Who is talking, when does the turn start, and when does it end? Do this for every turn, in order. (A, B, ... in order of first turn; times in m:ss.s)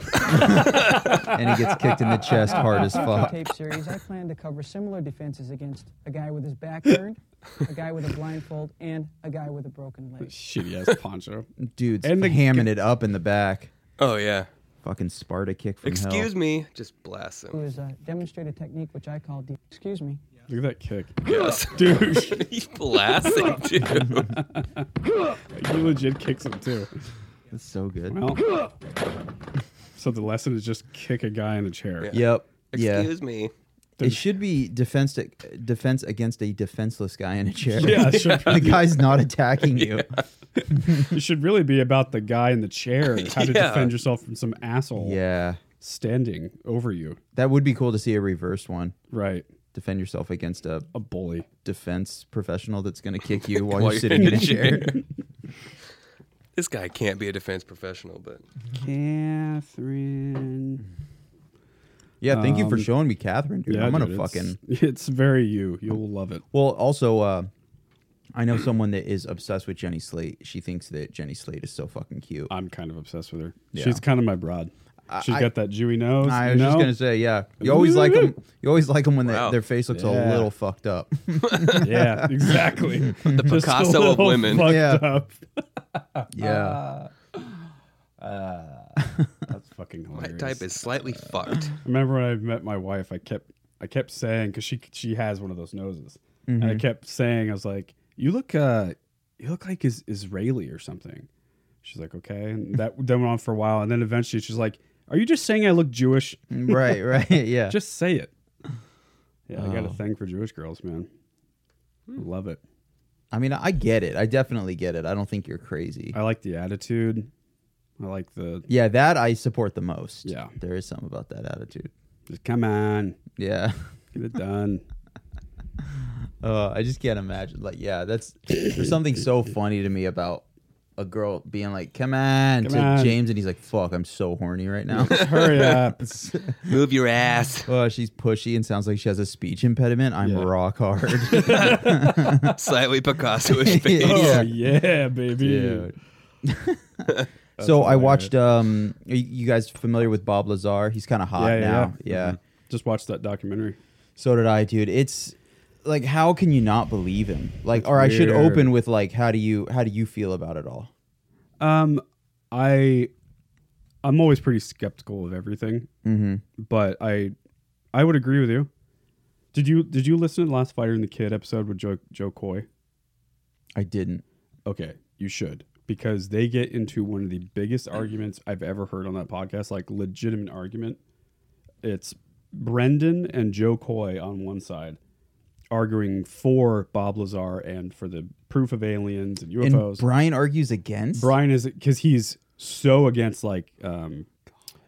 0:00.3-0:03.4 A
0:02.3-0:03.3 B
0:02.5-0:10.4 C
0:10.2-0:11.5 B
0:11.6-0:13.7 A
0:12.0-0:12.7 B
0:14.0-0:14.5 D
0:14.8-0:16.3 A
0:15.8-0:17.6 D
0:17.5-0:20.2 C
0:20.5-0:22.5 B
0:21.2-0:24.4 D
0:24.0-0:24.8 B
0:25.5-0:26.9 B
0:27.5-0:28.2 A
0:28.1-0:28.5 B
0:30.0-0:32.1 B
0:32.1-0:33.1 A
0:32.7-0:33.5 D
0:34.0-0:34.2 B
0:34.0-0:40.1 A
0:37.8-0:38.9 B
0:37.9-0:38.6 D
0:39.7-0:40.2 D
0:40.6-0:45.2 B
0:40.7-0:41.0 A
0:43.1-0:43.9 D
0:45.0-0:45.6 A
0:45.8-0:47.2 B
0:47.3-0:48.9 A
0:49.1-0:49.4 B
0:49.7-0:50.9 A
0:50.9-0:51.5 B
0:51.6-0:55.0 A
0:53.4-0:54.9 D
0:54.1-0:55.0 B
0:56.5-0:58.4 D
0:58.7-1:00.8 B
1:02.2-1:04.6 A
1:02.3-1:02.9 B
1:03.7-1:06.4 B
1:06.5-1:07.5 A
1:08.3-1:12.5 A
1:12.5-1:16.9 B
1:13.7-1:14.0 A
1:15.1-1:15.5 A
1:16.2-1:23.5 A
1:17.6-1:18.3 B
1:19.2-1:19.6 D
1:19.9-1:20.5 B
1:21.5-1:21.8 D
1:21.8-1:27.1 B
1:23.2-1:24.7 D
1:24.5-1:25.0 A
1:26.3-1:26.8 A
1:28.2-1:30.7 B
1:30.1-1:31.7 D
1:31.8-1:41.3 B
1:36.5-1:36.8 A
1:41.8-1:46.8 B
1:46.5-1:47.8 A
1:47.7-1:48.3 B
1:49.5-1:51.1 B
1:49.5-1:50.0 A
1:52.2-1:52.6 B
1:53.3-1:56.2 A
1:56.1-1:57.3 B
1:58.0-1:58.7 B
1:58.7-2:01.9 A
2:00.2-2:00.5 B
2:02.3-2:03.2 B
2:03.4-2:03.9 A
2:04.1-2:04.8 B
2:05.8-2:10.4 A
2:11.0-2:16.7 A
2:12.6-2:13.2 B
2:14.9-2:16.0 B
2:15.2-2:15.8 D
2:16.6-2:17.7 D
2:17.6-2:22.5 A
2:20.2-2:20.5 B
2:21.3-2:22.2 B
2:22.4-2:24.5 D
2:23.4-2:24.5 A
2:24.0-2:25.9 B
2:25.4-2:32.4 A
2:27.6-2:28.3 B
2:31.4-2:33.8 B
2:34.2-2:40.9 A
2:37.7-2:38.7 B
2:41.6-2:43.1 B
2:44.0-2:45.9 B
2:46.0-2:46.4 A
2:46.6-2:47.3 B
2:47.9-2:48.7 B
2:49.5-2:52.6 B
2:53.7-2:54.2 A
2:54.6-3:01.0 B
3:01.8-3:05.0 B
3:05.7-3:10.0 B
3:09.6-3:11.3 A
3:11.2-3:14.3 B